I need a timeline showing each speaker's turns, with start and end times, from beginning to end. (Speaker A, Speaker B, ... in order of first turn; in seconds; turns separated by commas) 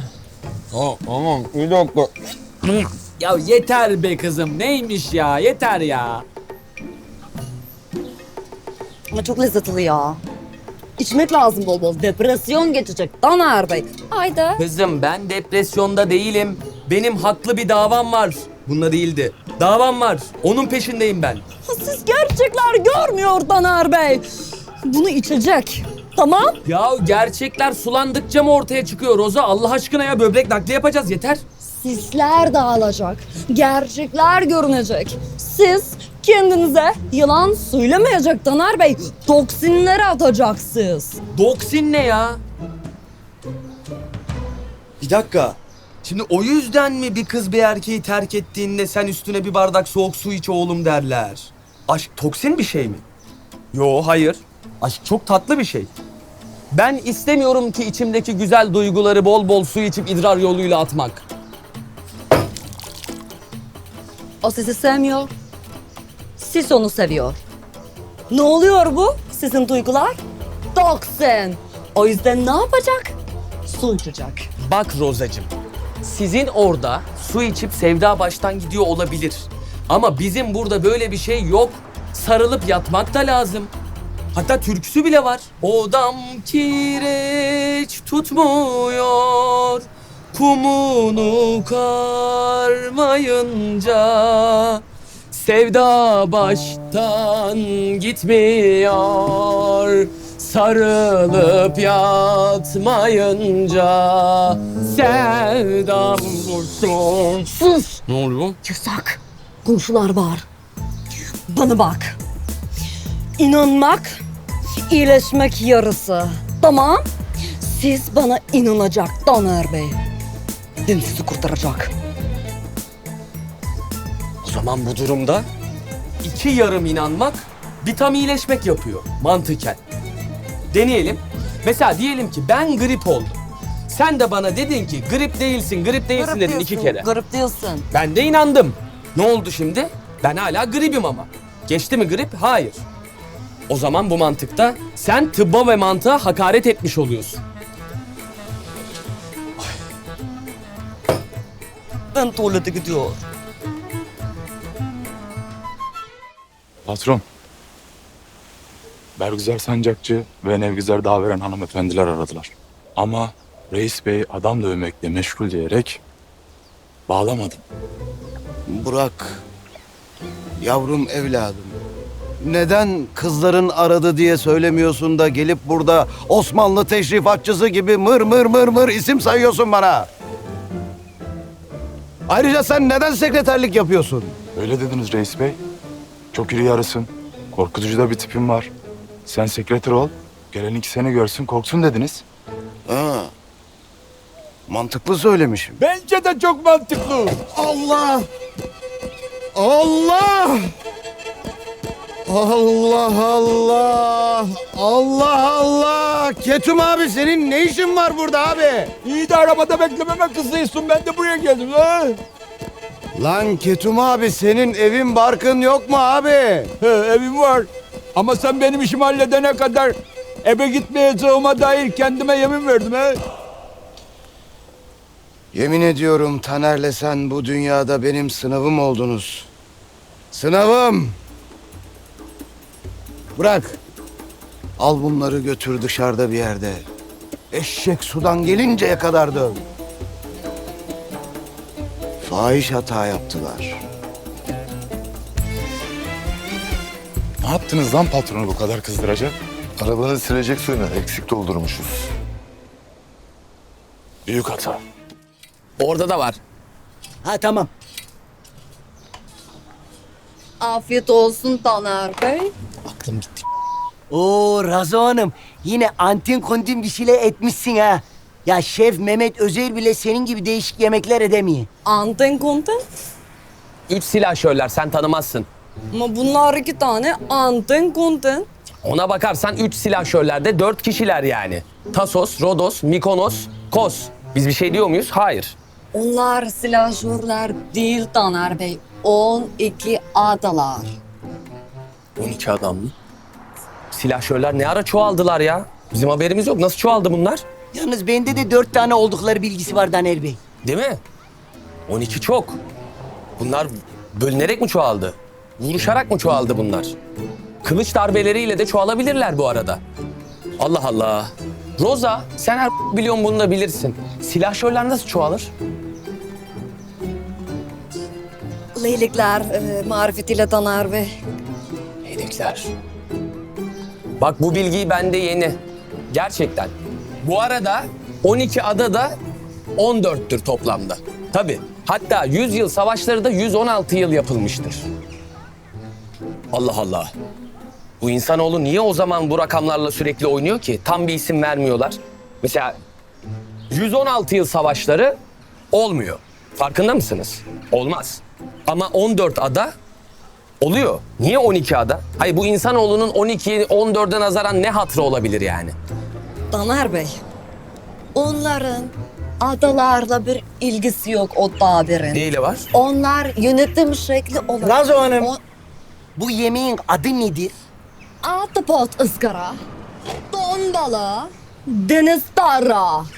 Speaker A: 2.7-6.2, Speaker B: 9.1-10.2, Speaker B: 11.0-14.6, Speaker A: 14.6-21.4, Speaker B: 21.6-24.2, Speaker B: 24.8-26.6, Speaker A: 26.6-31.4, Speaker B: 31.6-41.2, Speaker A: 41.3-42.4, Speaker A: 45.0-53.0, Speaker A: 53.7-55.9, Speaker A: 56.7-61.2, Speaker B: 64.4-65.3, Speaker B: 66.4-67.4, Speaker B: 68.3-70.2, Speaker B: 70.7-73.1, Speaker B: 73.7-74.5, Speaker A: 74.6-75.5, Speaker A: 76.0-83.7, Speaker A: 84.3-107.5, Speaker B: 107.5-108.0, Speaker A: 108.1-108.5, Speaker B: 108.6-110.5, Speaker B: 111.5-112.2, Speaker B: 113.4-114.2, Speaker B: 114.8-117.0, Speaker B: 117.6-120.0, Speaker B: 120.8-121.9, Speaker A: 124.4-125.5, Speaker A: 126.2-129.8, Speaker A: 130.7-133.4, Speaker A: 133.9-137.0, Speaker B: 136.2-137.8, Speaker A: 137.9-142.8, Speaker A: 143.7-147.4, Speaker B: 152.1-153.2, Speaker C: 156.8-157.2, Speaker C: 159.2-166.0, Speaker C: 167.1-167.6, Speaker D: 168.7-169.4, Speaker D: 170.6-171.8, Speaker D: 172.4-180.1, Speaker D: 182.3-184.3, Speaker C: 184.6-185.6, Speaker C: 186.3-188.7, Speaker C: 189.2-192.2, Speaker D: 192.9-193.3, Speaker D: 194.7-195.8, Speaker E: 195.8-197.4, Speaker D: 197.5-198.3, Speaker D: 199.5-200.7, Speaker D: 202.3-208.9, Speaker E: 209.0-212.2, Speaker D: 213.1-216.7, Speaker E: 216.8-223.2, Speaker D: 225.5-229.5, Speaker D: 230.3-231.1, Speaker D: 233.3-233.8, Speaker D: 234.8-236.8, Speaker D: 237.5-239.6, Speaker D: 242.2-243.8, Speaker C: 247.4-249.3, Speaker F: 249.8-252.1, Speaker C: 254.2-254.8, Speaker A: 255.8-256.4, Speaker G: 257.2-257.7, Speaker B: 260.6-262.5, Speaker A: 262.9-263.4, Speaker G: 264.1-271.7, Speaker B: 271.8-272.8, Speaker A: 273.9-275.5, Speaker B: 275.9-278.5, Speaker A: 278.8-285.5, Speaker B: 285.9-290.9, Speaker A: 292.2-292.9, Speaker A: 293.9-297.4, Speaker G: 297.7-300.4, Speaker A: 300.6-301.0, Speaker A: 301.9-302.6, Speaker A: 303.4-306.9, Speaker A: 307.6-309.8, Speaker A: 310.6-315.5, Speaker B: 318.7-321.1, Speaker A: 322.0-322.7, Speaker A: 324.2-325.6, Speaker A: 326.1-329.1, Speaker A: 329.8-334.8, Speaker A: 336.5-337.1, Speaker A: 338.0-342.8, Speaker A: 343.7-345.1, Speaker A: 345.7-349.7, Speaker A: 350.6-355.7, Speaker B: 356.5-357.2, Speaker B: 358.1-365.4, Speaker A: 362.1-362.6, Speaker G: 364.6-365.3, Speaker G: 366.1-367.5, Speaker B: 368.2-369.6, Speaker B: 370.3-373.1